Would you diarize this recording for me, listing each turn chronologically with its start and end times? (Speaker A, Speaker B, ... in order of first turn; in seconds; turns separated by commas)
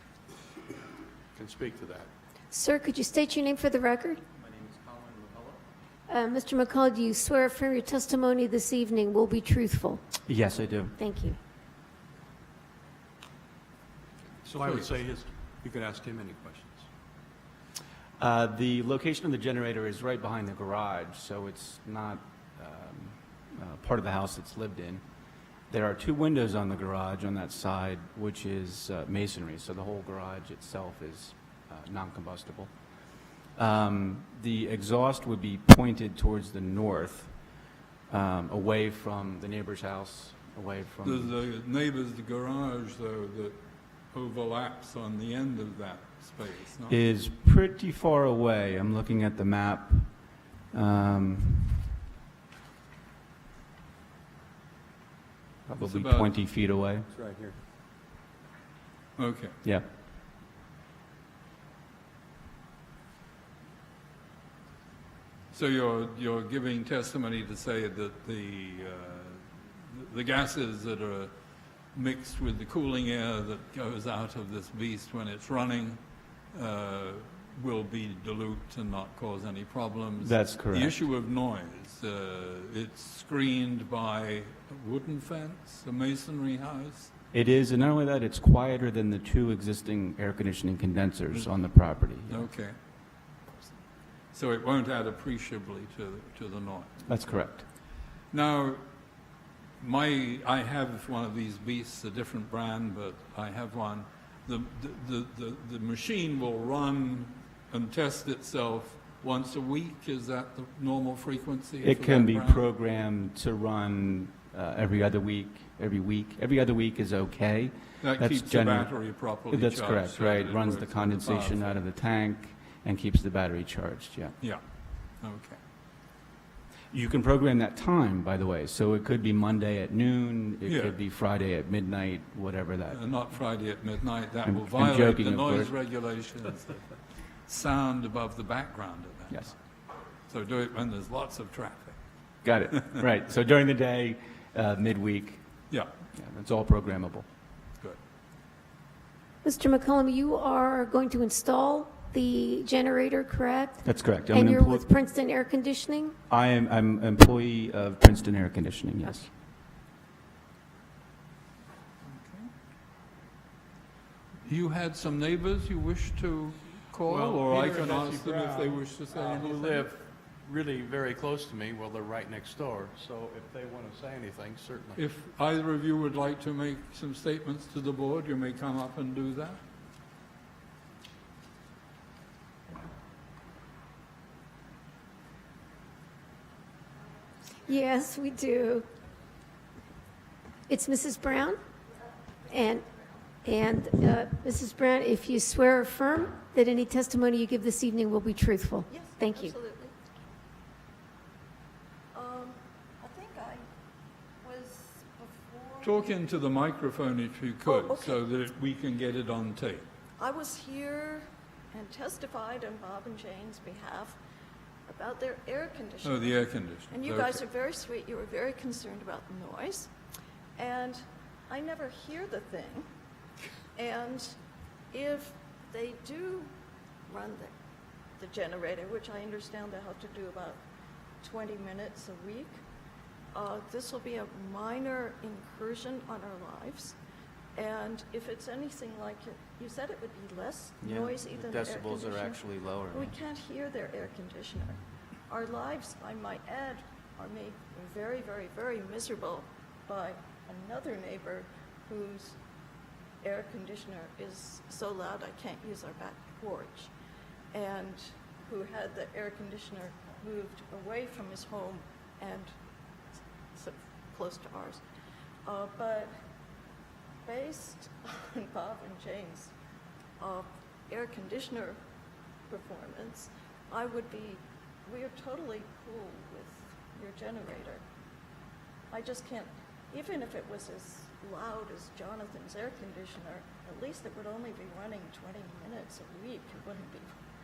Speaker A: 1.4-2.1, Speaker B: 2.5-4.2, Speaker A: 4.8-5.5, Speaker B: 6.1-10.0, Speaker C: 10.2-10.9, Speaker B: 11.0-11.4, Speaker A: 14.4-16.9, Speaker C: 18.2-25.0, Speaker C: 25.7-32.7, Speaker C: 33.6-37.3, Speaker C: 38.1-41.4, Speaker D: 41.0-43.6, Speaker D: 44.1-47.0, Speaker C: 46.9-50.1, Speaker C: 50.7-51.9, Speaker C: 55.7-57.1, Speaker D: 55.8-56.3, Speaker A: 57.1-57.6, Speaker D: 59.2-59.5, Speaker D: 65.5-71.3, Speaker D: 71.9-76.0, Speaker D: 76.5-87.1, Speaker C: 80.2-81.0, Speaker C: 87.3-92.5, Speaker D: 92.2-92.8, Speaker D: 94.3-96.9, Speaker C: 97.1-97.7, Speaker D: 98.3-98.8, Speaker D: 99.8-112.7, Speaker C: 111.8-124.3, Speaker D: 118.0-121.8, Speaker D: 125.2-125.6, Speaker C: 126.9-133.0, Speaker D: 130.7-131.0, Speaker D: 132.9-136.8, Speaker C: 134.5-135.7, Speaker D: 137.5-139.5, Speaker D: 140.3-142.0, Speaker C: 142.4-145.4, Speaker C: 146.1-147.3, Speaker B: 149.4-156.2, Speaker C: 153.8-154.9, Speaker C: 156.3-159.3, Speaker D: 162.0-162.5, Speaker D: 164.4-169.9, Speaker A: 167.1-175.0, Speaker D: 175.0-179.6, Speaker B: 187.6-188.9, Speaker B: 190.7-191.6, Speaker B: 192.5-192.9, Speaker E: 192.9-193.2, Speaker B: 193.4-199.6, Speaker E: 198.9-199.9, Speaker E: 202.1-203.6, Speaker E: 204.4-206.3, Speaker D: 205.8-209.8, Speaker E: 207.7-208.2, Speaker E: 210.2-214.2, Speaker E: 214.9-219.9, Speaker D: 216.0-217.4, Speaker E: 220.6-222.9, Speaker E: 223.8-224.4, Speaker E: 224.9-226.5, Speaker E: 227.1-227.5, Speaker E: 228.2-230.6, Speaker E: 231.2-232.6, Speaker E: 233.3-237.0, Speaker E: 237.6-244.8, Speaker C: 240.8-243.2, Speaker E: 245.3-252.4, Speaker E: 253.2-256.9, Speaker E: 257.5-262.5, Speaker E: 263.5-264.8, Speaker E: 265.5-266.1, Speaker E: 267.2-269.5, Speaker E: 270.2-271.8, Speaker E: 272.5-277.8, Speaker E: 278.9-287.1